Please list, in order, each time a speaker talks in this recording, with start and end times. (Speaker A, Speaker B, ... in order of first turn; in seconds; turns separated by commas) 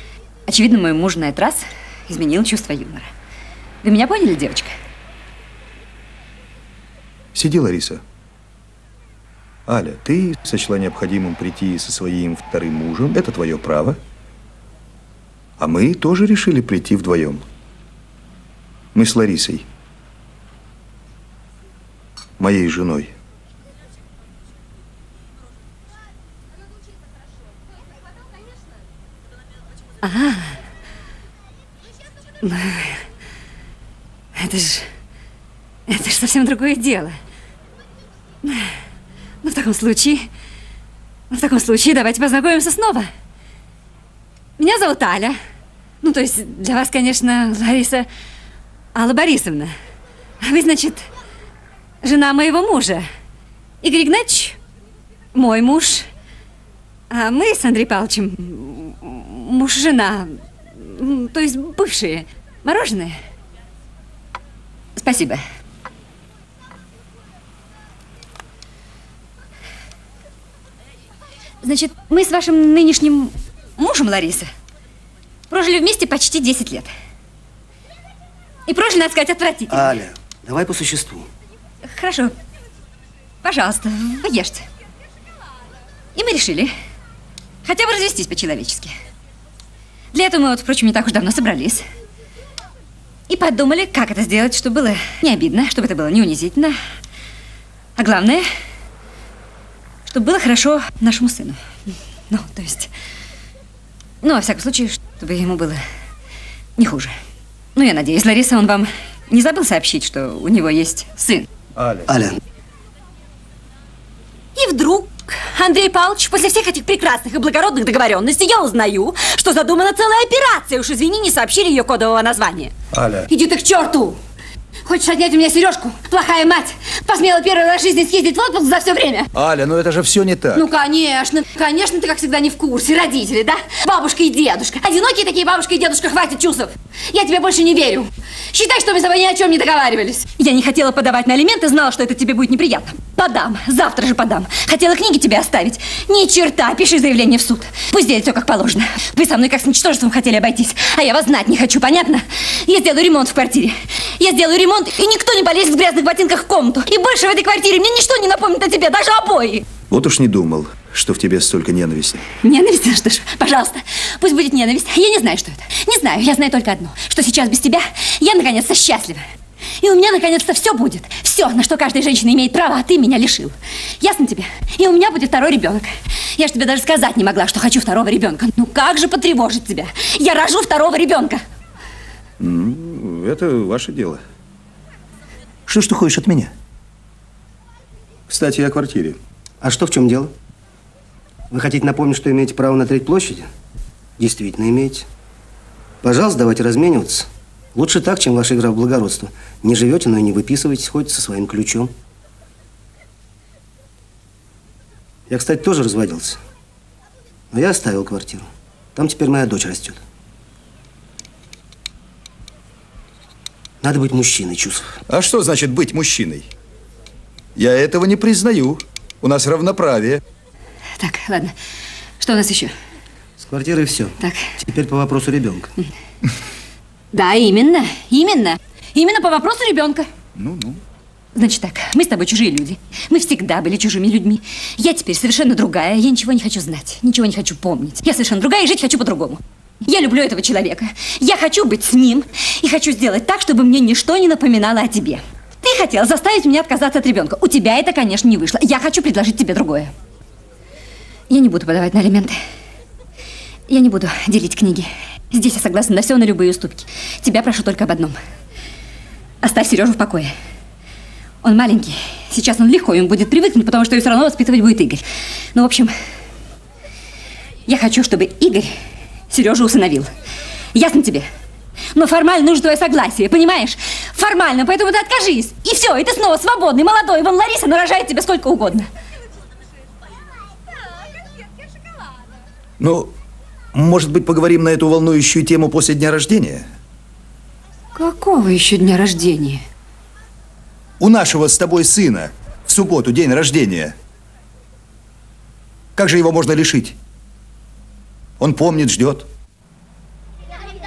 Speaker A: 0.5-3.1, Speaker A: 3.8-4.7, Speaker B: 7.3-8.0, Speaker B: 9.7-14.0, Speaker B: 15.6-17.4, Speaker B: 18.9-19.6, Speaker B: 22.4-23.1, Speaker A: 30.0-30.6, Speaker A: 32.4-33.0, Speaker A: 34.4-34.9, Speaker A: 35.9-37.2, Speaker A: 38.4-38.8, Speaker A: 39.4-40.3, Speaker A: 41.3-43.1, Speaker A: 44.6-45.4, Speaker A: 46.0-48.1, Speaker A: 48.9-49.7, Speaker A: 50.4-51.1, Speaker A: 52.0-53.1, Speaker A: 53.8-54.6, Speaker A: 55.3-56.1, Speaker A: 57.1-63.2, Speaker A: 65.0-65.4, Speaker A: 71.6-74.5, Speaker A: 75.5-76.9, Speaker A: 78.7-79.9, Speaker C: 79.7-81.3, Speaker A: 81.8-82.3, Speaker A: 83.4-84.7, Speaker A: 86.1-86.7, Speaker A: 87.6-89.0, Speaker A: 90.1-91.8, Speaker A: 93.3-96.8, Speaker A: 98.0-98.4, Speaker A: 100.1-101.6, Speaker A: 102.3-102.9, Speaker A: 104.2-105.8, Speaker A: 106.8-107.1, Speaker A: 107.8-111.5, Speaker B: 111.8-112.1, Speaker C: 112.1-112.4, Speaker A: 114.5-122.7, Speaker B: 122.9-123.3, Speaker A: 123.3-124.2, Speaker A: 124.8-129.3, Speaker B: 129.3-130.7, Speaker A: 130.5-159.7, Speaker B: 159.9-162.2, Speaker A: 162.4-169.2, Speaker A: 169.8-181.4, Speaker B: 182.4-184.2, Speaker B: 185.7-186.5, Speaker B: 188.3-189.2, Speaker C: 189.6-190.3, Speaker C: 191.5-193.5, Speaker C: 194.2-195.1, Speaker C: 196.0-201.9, Speaker C: 205.3-206.4, Speaker C: 207.5-210.0, Speaker C: 213.8-214.9, Speaker B: 215.1-216.5, Speaker B: 217.6-220.2, Speaker A: 221.0-221.5, Speaker A: 222.2-222.7, Speaker C: 223.4-225.7, Speaker A: 224.2-224.5, Speaker A: 227.1-230.1, Speaker B: 230.3-230.8, Speaker A: 231.3-249.9, Speaker A: 251.3-252.4, Speaker A: 253.7-258.2, Speaker A: 259.4-260.3, Speaker A: 261.4-265.9, Speaker A: 267.7-268.8, Speaker A: 269.3-270.1, Speaker A: 270.7-271.3, Speaker A: 271.9-278.9, Speaker B: 282.8-283.1, Speaker B: 283.7-286.7, Speaker A: 287.9-289.6, Speaker B: 291.0-293.9, Speaker B: 295.9-296.9, Speaker B: 298.4-299.3